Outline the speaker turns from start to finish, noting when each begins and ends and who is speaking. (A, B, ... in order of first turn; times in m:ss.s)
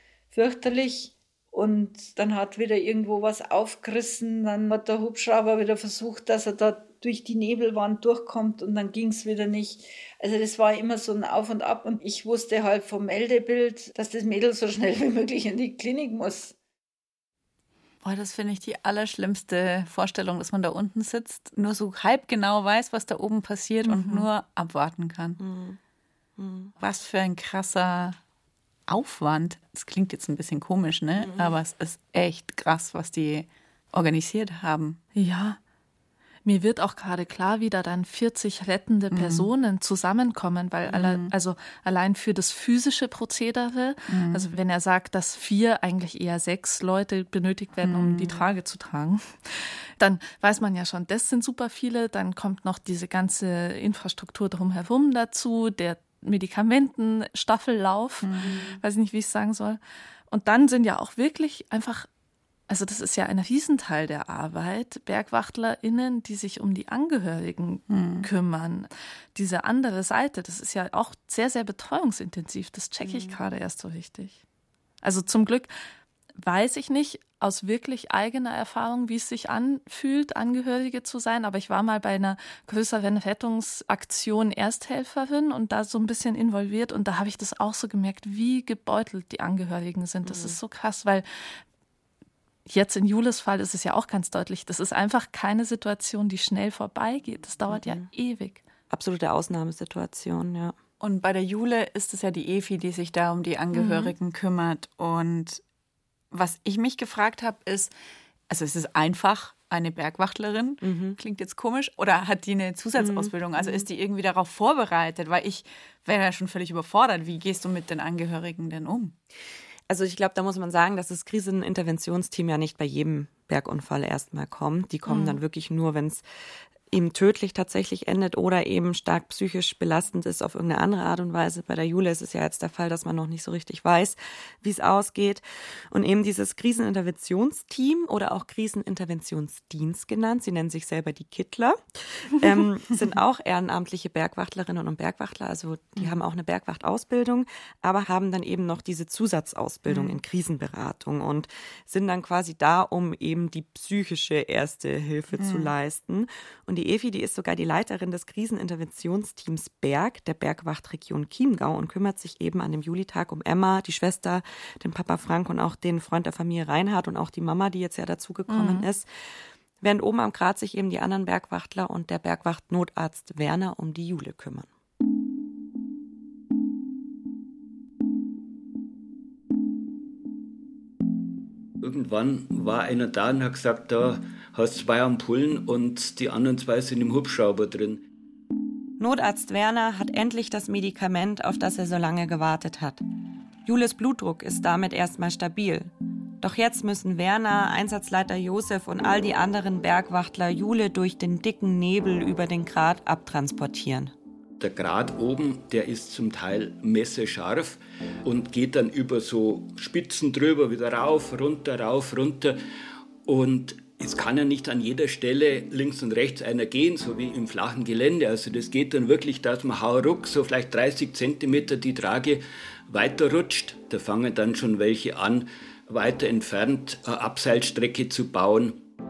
0:00.3-0:16.6 A
0:18.0-0:25.4 B
0:23.9-0:24.3 C
0:25.4-0:25.8 D
0:26.4-0:26.7 D
0:26.8-0:28.2 B
0:28.9-0:35.0 B
0:31.2-0:31.6 D
0:35.1-0:35.6 C
0:36.4-1:02.1 C
0:39.1-0:39.5 B
0:40.9-0:41.3 B
0:44.1-0:44.5 B
0:47.8-0:48.5 B
0:58.2-0:58.8 B
1:02.7-1:14.4 C
1:07.9-1:08.3 B
1:13.0-1:13.4 B
1:15.0-1:15.7 C
1:16.4-1:31.6 C
1:30.2-1:30.6 D
1:32.7-1:38.6 C
1:37.7-1:38.1 D
1:38.9-1:40.8 D
1:41.0-1:45.6 B
1:43.7-1:44.1 C
1:46.3-1:47.9 B
1:48.5-1:59.2 B
1:50.8-1:51.2 D
1:53.0-1:53.9 D
1:59.9-2:06.2 D
2:05.1-2:05.4 B
2:06.9-2:49.1 D
2:29.9-2:30.2 B
2:35.3-2:35.7 B
2:48.5-2:48.9 C
2:49.8-2:54.7 D
3:01.8-3:08.0 E
3:09.0-3:13.0 D
3:13.6-3:24.1 D
3:24.6-3:32.6 E
3:33.2-3:48.8 E